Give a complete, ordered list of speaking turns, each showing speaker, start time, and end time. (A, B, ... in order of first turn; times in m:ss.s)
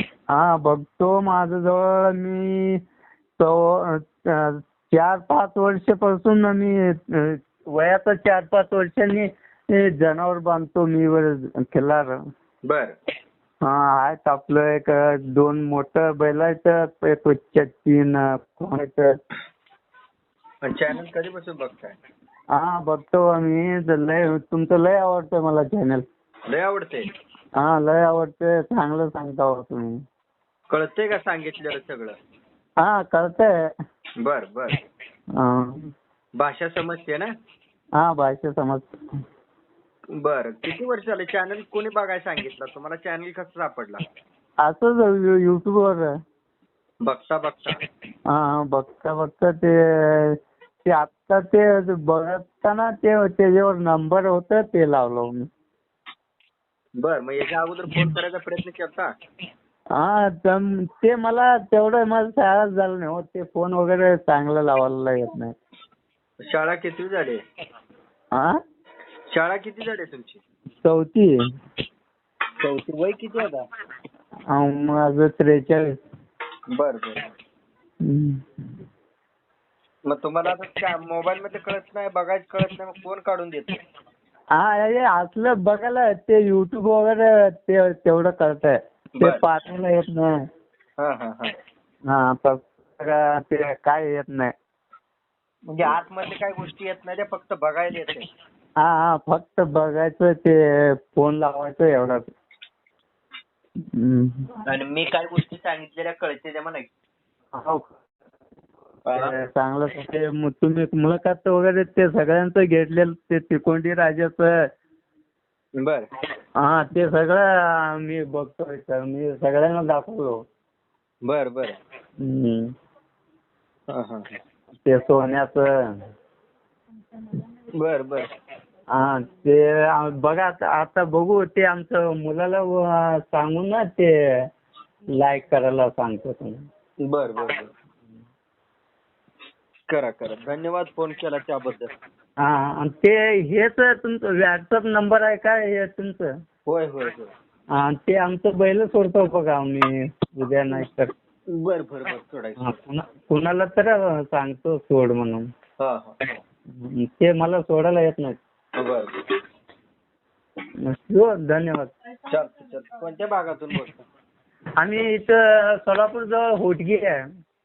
0:00.3-0:02.8 A
0:03.4-0:12.2 A
0:12.6-0:13.0 B
0:13.6-0:19.2 A
0:20.6-0:22.0 B
0:22.5-0:26.0 A
0:26.5-0:27.1 B
0:27.6-0:30.0 A
0:30.7-0:32.2 B
0:32.8-0:33.5 A
0:34.2-0:34.8 B
0:35.4-0:35.9 A
0:36.4-0:37.3 B
0:38.0-0:39.2 A
0:40.1-0:44.0 B
0:44.6-0:46.1 A
0:47.0-0:47.8 B
0:48.3-0:55.5 A
0:57.0-0:59.1 B
0:59.9-1:05.6 A
1:06.4-1:07.4 B
1:09.3-1:10.4 B
1:10.8-1:11.5 A
1:12.6-1:13.7 B
1:14.5-1:16.0 A
1:16.7-1:17.3 B
1:18.0-1:18.5 A
1:20.1-1:23.8 B
1:24.6-1:30.4 A
1:29.2-1:29.4 B
1:31.0-1:31.6 B
1:32.1-1:34.5 A
1:35.7-1:38.3 B
1:38.8-1:42.2 A
1:43.9-1:44.6 A
1:44.6-1:46.9 B
1:47.5-1:47.9 A
1:49.1-1:49.3 B
1:49.2-1:54.7 A
1:55.8-1:56.1 B
1:56.6-2:00.4 A
2:01.2-2:01.8 B
2:02.2-2:02.7 A
2:03.9-2:04.3 B
2:04.8-2:06.1 A
2:07.8-2:08.3 B
2:08.9-2:14.5 A
2:15.2-2:16.6 A
2:17.0-2:17.7 B
2:19.9-2:21.9 B
2:22.4-2:26.3 A
2:26.7-2:27.3 B
2:27.7-2:31.1 A
2:31.5-2:32.8 B
2:32.6-2:35.5 A
2:35.8-2:36.2 B
2:36.7-2:38.4 A
2:38.8-2:39.2 B
2:40.8-2:41.9 A
2:42.3-2:44.0 B
2:44.8-2:47.2 A